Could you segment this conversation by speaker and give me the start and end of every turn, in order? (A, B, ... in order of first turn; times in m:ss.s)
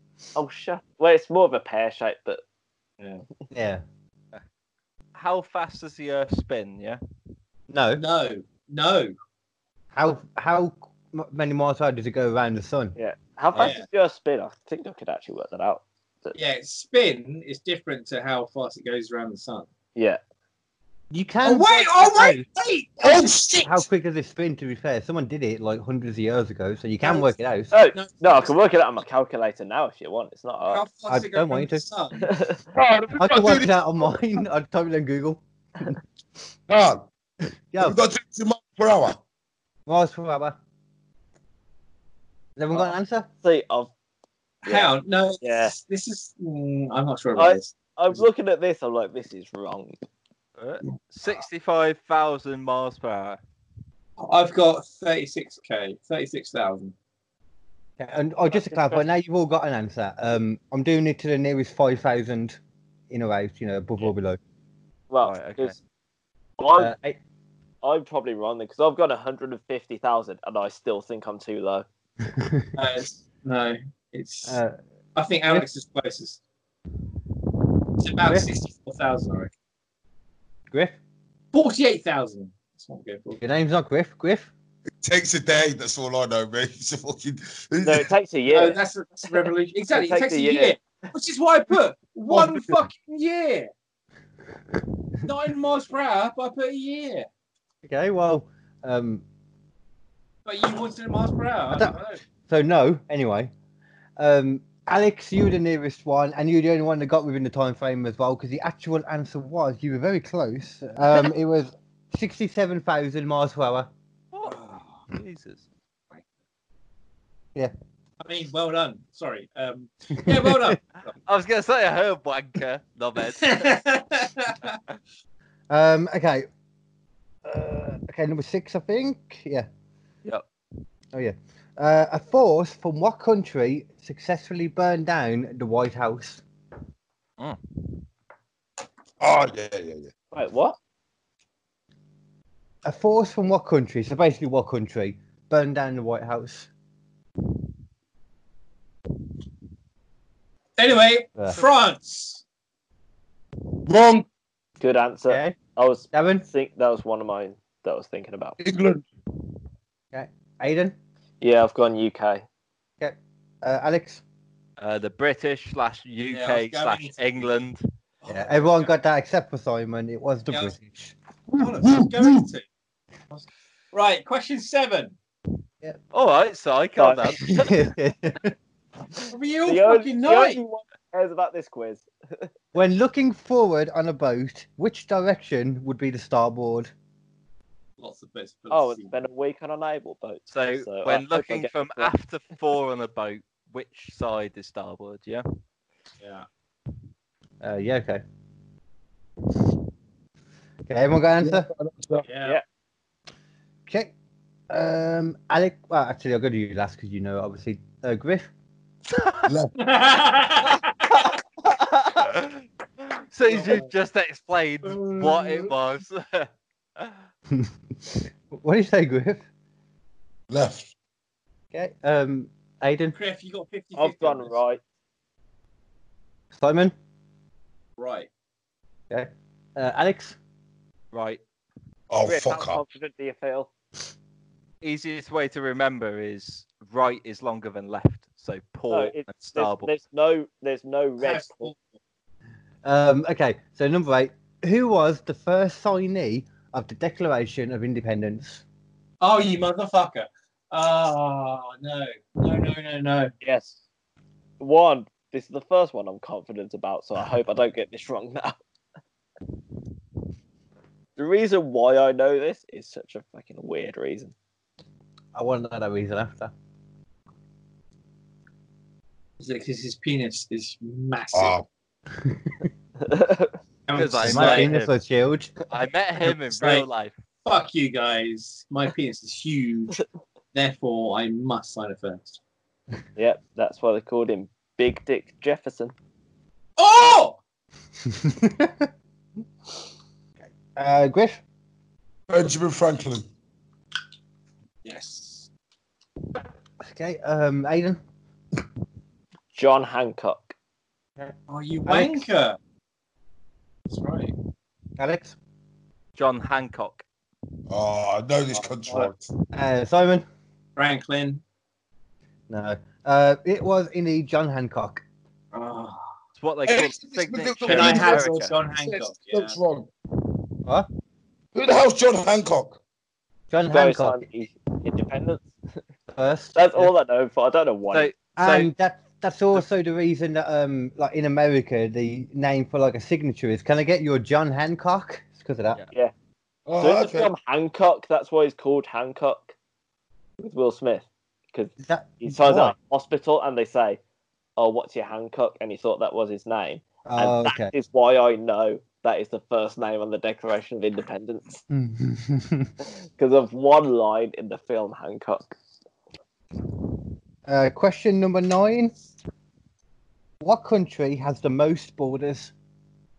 0:00.4-0:02.4 A
0:03.5-0:03.8 B
0:05.2-0:07.0 C
0:07.7-0:08.0 B
0:08.0-0:09.2 D
0:10.0-0:13.0 B
0:13.0-0:16.4 A
0:13.6-0:13.9 D
0:16.4-0:19.7 D
0:20.0-0:20.2 A
0:21.1-0:22.4 B
0:21.4-0:23.8 D
0:23.0-0:23.7 E
0:23.6-0:27.7 B
0:27.7-0:30.8 A
0:27.9-0:28.6 D
0:30.7-0:32.3 D
0:31.1-0:31.8 B
0:32.2-0:32.6 A
0:32.8-0:33.8 E
0:33.1-0:35.9 B
0:36.7-0:37.1 E
0:37.7-0:38.0 B
0:37.8-0:39.2 E
0:39.9-0:40.6 B
0:42.6-0:43.3 B
0:43.4-0:43.9 A
0:44.6-0:48.2 D
0:44.7-0:45.8 A
0:47.4-0:50.0 A
0:50.6-0:53.4 C
0:54.2-0:56.9 D
0:58.0-1:02.6 B
1:03.1-1:04.4 B
1:05.1-1:05.8 A
1:05.2-1:05.8 C
1:06.6-1:06.9 A
1:06.8-1:07.2 B
1:07.8-1:11.9 A
1:12.3-1:12.7 B
1:12.8-1:14.6 D
1:14.5-1:14.8 B
1:15.2-1:16.4 D
1:18.0-1:19.5 D
1:20.7-1:21.0 B
1:21.5-1:23.4 D
1:23.4-1:24.5 B
1:25.0-1:28.1 E
1:27.8-1:28.8 A
1:28.5-1:33.7 D
1:29.4-1:30.8 A
1:35.2-1:37.3 D
1:37.8-1:39.2 B
1:40.4-1:42.2 D
1:41.7-1:43.5 B
1:44.2-1:53.9 B
1:54.3-1:55.6 C
1:54.4-1:54.9 D
1:58.2-2:01.1 D
2:00.3-2:00.8 B
2:01.3-2:03.8 C
2:03.3-2:04.8 D
2:05.7-2:06.5 B
2:07.4-2:09.7 B
2:11.1-2:16.4 B
2:19.2-2:20.1 E
2:20.3-2:20.8 A
2:22.8-2:26.7 B
2:30.8-2:32.4 D
2:33.8-2:34.3 E
2:34.8-2:38.6 A
2:35.3-2:35.6 B
2:36.1-2:36.4 B
2:38.6-2:39.0 E
2:40.1-2:41.0 B
2:41.4-2:42.4 A
2:43.0-2:44.2 B
2:44.8-2:47.8 C
2:46.3-2:47.2 D
2:48.2-2:48.9 D
2:48.3-2:51.1 B
2:50.5-2:50.8 D
2:51.5-2:52.7 D
2:51.6-2:52.4 E
2:53.3-2:55.2 D
2:56.1-2:57.6 C
2:57.0-2:57.7 A
2:57.5-2:58.5 B
2:59.3-3:00.6 D
2:59.7-3:02.5 A
3:02.7-3:06.9 B
3:08.0-3:09.2 D
3:08.7-3:12.1 A
3:10.5-3:15.4 C
3:16.2-3:16.5 D
3:17.6-3:18.2 B
3:20.9-3:21.7 B
3:21.4-3:22.2 E
3:22.2-3:22.6 D
3:23.9-3:24.1 B
3:24.7-3:28.5 B
3:29.2-3:29.4 C
3:29.5-3:29.8 E
3:29.8-3:31.2 D
3:32.2-3:32.6 C
3:33.2-3:37.2 C
3:33.5-3:33.9 D
3:34.8-3:35.7 D
3:37.5-3:39.4 B
3:40.5-3:40.9 E
3:41.7-3:43.2 B
3:43.1-3:44.6 D
3:44.0-3:44.8 A
3:46.5-3:46.9 B
3:48.0-3:48.3 D
3:49.1-3:50.4 B
3:51.1-3:51.4 C
3:52.1-3:52.8 E
3:52.2-3:53.7 A
3:54.8-3:59.9 C
3:58.9-4:01.7 A
4:01.2-4:01.8 D
4:02.8-4:08.6 B
4:09.2-4:13.3 D
4:13.4-4:13.8 A
4:14.6-4:18.6 A
4:21.2-4:24.3 A
4:25.4-4:26.5 B
4:29.4-4:31.6 D
4:31.3-4:31.7 E
4:32.2-4:32.7 B
4:33.0-4:33.6 A
4:33.9-4:34.7 D
4:33.9-4:34.9 C
4:34.2-4:35.5 B
4:35.7-4:37.1 C
4:36.3-4:36.9 D
4:37.4-4:40.0 D
4:40.5-4:42.4 D
4:43.2-4:45.9 A
4:46.8-4:47.4 D
4:48.1-4:48.9 B
4:50.8-4:51.4 B
4:52.3-4:53.3 E
4:54.8-4:55.5 D
4:56.8-4:58.0 B
4:59.5-5:00.5 A
5:01.5-5:02.6 D
5:01.9-5:02.2 B
5:03.9-5:04.3 D
5:05.0-5:05.4 B
5:06.2-5:07.0 C
5:07.7-5:09.3 E
5:09.5-5:10.2 B
5:10.8-5:11.4 D
5:12.5-5:15.0 B
5:15.5-5:16.1 D
5:16.4-5:18.6 C
5:16.7-5:19.9 E
5:17.7-5:19.6 D
5:21.6-5:22.8 E
5:23.5-5:24.3 B
5:23.7-5:25.5 A
5:26.1-5:26.9 B
5:26.6-5:28.1 A
5:27.9-5:28.7 C
5:28.4-5:35.8 B
5:36.7-5:37.3 E
5:36.8-5:39.5 A
5:40.4-5:44.0 A
5:41.8-5:42.8 B
5:44.6-5:51.6 A
5:47.0-5:47.7 B
5:51.7-5:52.7 B
5:52.9-5:55.5 A
5:57.5-5:58.9 B
6:00.4-6:02.5 B